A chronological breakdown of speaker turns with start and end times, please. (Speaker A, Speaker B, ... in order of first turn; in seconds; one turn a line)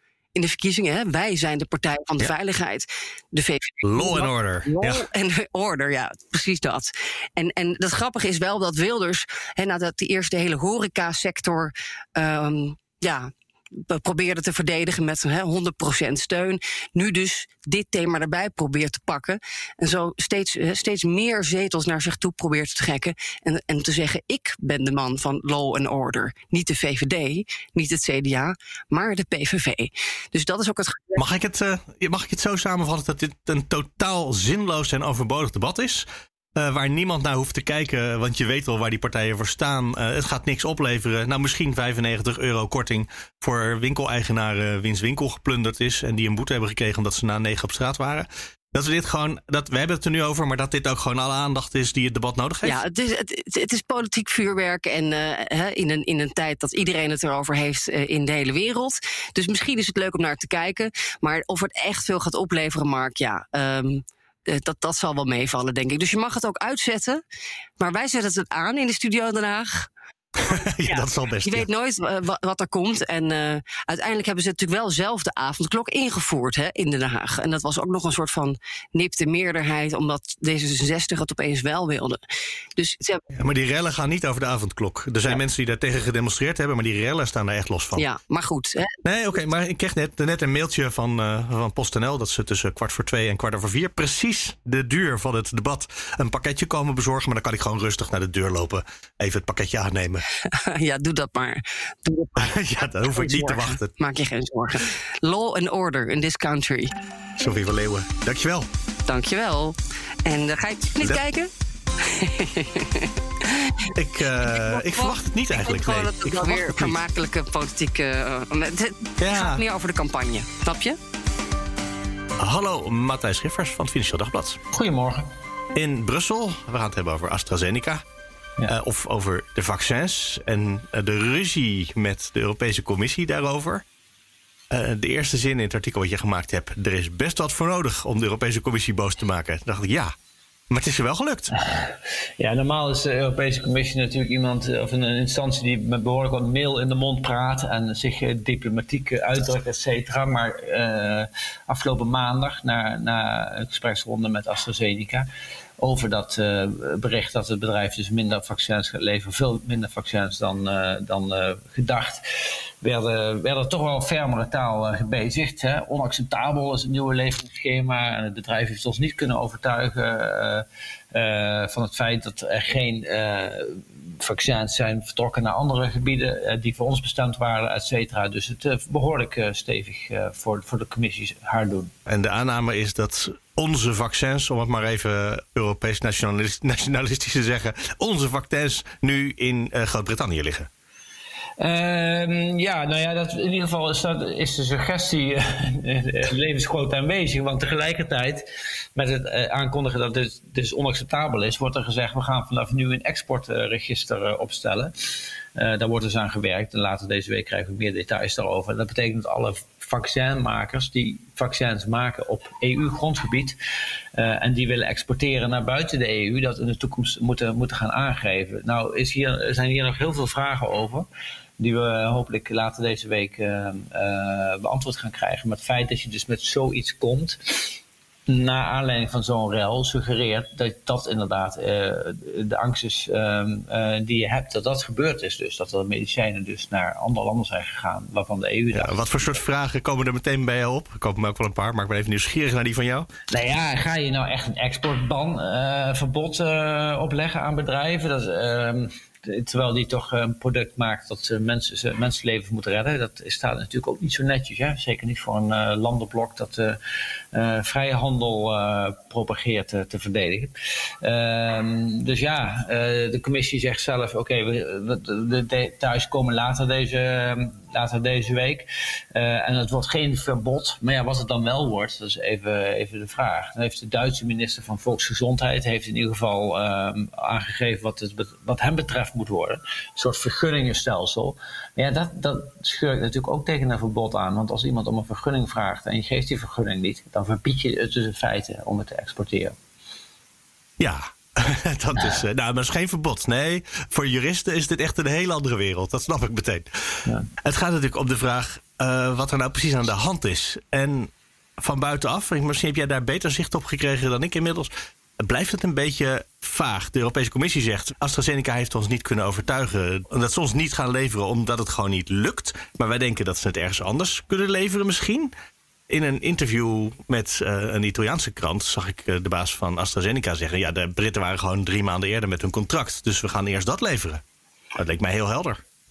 Speaker A: 0.3-31.2
Speaker B: 3.8-5.0
Speaker B: 31.2-52.8
Speaker A: 52.6-67.2
Speaker A: 67.8-69.9
Speaker B: 70.4-71.7
Speaker A: 70.9-82.2
Speaker A: 82.8-83.2
Speaker B: 83.4-88.0
Speaker A: 88.0-89.0
Speaker B: 89.0-100.2
Speaker A: 100.5-106.9
Speaker B: 102.4-103.9
Speaker B: 107.4-108.7
Speaker A: 109.1-111.5
Speaker A: 112.0-121.0
Speaker B: 114.0-117.0
Speaker B: 119.2-119.6
Speaker B: 122.4-124.6
Speaker C: 124.7-125.2
Speaker B: 125.7-128.0
Speaker B: 128.7-133.8
Speaker B: 134.7-140.1
Speaker B: 140.7-141.5
Speaker C: 141.6-155.2
Speaker C: 155.8-162.2
Speaker C: 162.8-181.9
Speaker B: 182.1-190.7
Speaker C: 191.6-204.9
Speaker C: 205.5-213.6
Speaker C: 214.2-221.1
Speaker C: 221.6-227.7
Speaker C: 228.3-239.3
Speaker B: 238.7-243.1
Speaker C: 243.3-256.8
Speaker C: 257.3-289.6
Speaker B: 290.8-296.7
Speaker B: 297.4-315.3
Speaker B: 315.9-324.2
Speaker B: 324.8-325.6